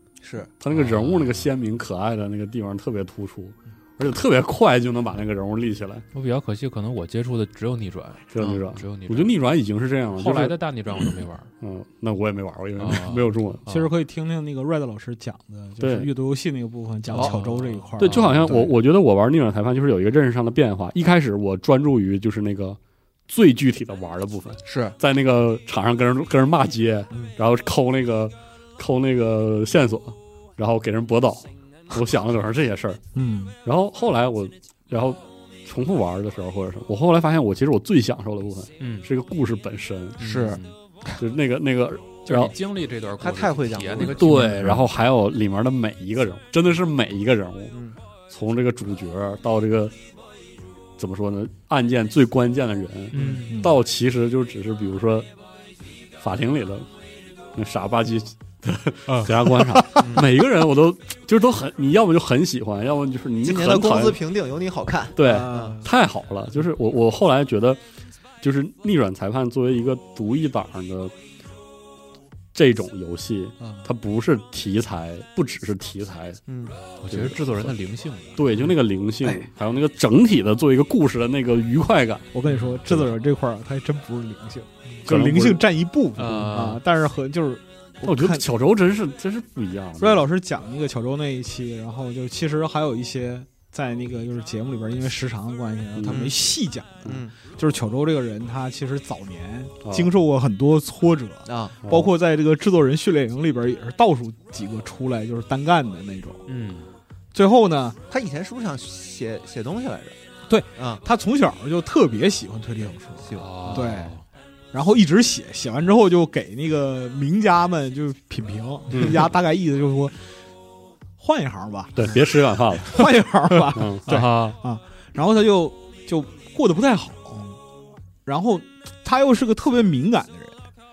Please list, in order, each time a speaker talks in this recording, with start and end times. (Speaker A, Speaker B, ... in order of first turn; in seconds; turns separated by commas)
Speaker A: 0.2-0.5, Speaker B: 0.6-6.0, Speaker C: 0.7-1.5, Speaker C: 6.1-9.3, Speaker B: 8.3-10.6, Speaker A: 8.4-8.6, Speaker C: 10.2-11.5, Speaker B: 11.6-13.6, Speaker C: 12.8-13.9, Speaker D: 13.7-18.8, Speaker B: 15.8-16.1, Speaker A: 17.1-17.4, Speaker C: 17.1-17.8, Speaker B: 18.0-33.0, Speaker A: 24.6-24.9, Speaker D: 33.1-33.5, Speaker B: 33.6-40.3, Speaker C: 38.8-39.1, Speaker C: 40.2-40.8, Speaker D: 40.2-40.6, Speaker B: 41.2-42.5, Speaker C: 42.3-44.7, Speaker A: 43.2-44.5, Speaker B: 44.0-47.8, Speaker D: 44.5-44.8, Speaker A: 47.7-48.0, Speaker B: 48.3-50.0, Speaker B: 51.0-55.3, Speaker C: 53.1-53.5, Speaker D: 53.2-53.8, Speaker B: 56.2-56.9, Speaker B: 57.5-64.2, Speaker D: 59.7-60.0, Speaker A: 63.4-65.8, Speaker B: 65.2-67.8, Speaker D: 65.2-65.9, Speaker B: 68.4-71.1, Speaker B: 72.5-76.4, Speaker A: 76.5-76.8, Speaker C: 77.0-78.4, Speaker B: 77.1-77.7, Speaker B: 78.4-83.2, Speaker D: 82.3-88.4, Speaker C: 82.5-82.8, Speaker B: 85.1-85.6, Speaker C: 86.2-86.8, Speaker B: 88.0-90.2, Speaker D: 90.0-106.4, Speaker B: 96.0-96.3, Speaker A: 96.1-96.5, Speaker A: 97.0-97.4, Speaker B: 99.8-100.1, Speaker A: 101.5-101.8, Speaker B: 101.8-102.1, Speaker C: 106.5-106.9, Speaker D: 107.3-108.0, Speaker A: 108.1-110.2, Speaker D: 110.5-114.2, Speaker A: 110.8-111.0, Speaker A: 113.2-113.9, Speaker C: 113.4-114.2, Speaker D: 114.7-120.2, Speaker B: 118.9-119.3, Speaker D: 121.2-122.2, Speaker B: 122.0-124.0, Speaker D: 122.8-127.5, Speaker C: 124.1-124.6, Speaker D: 128.3-130.6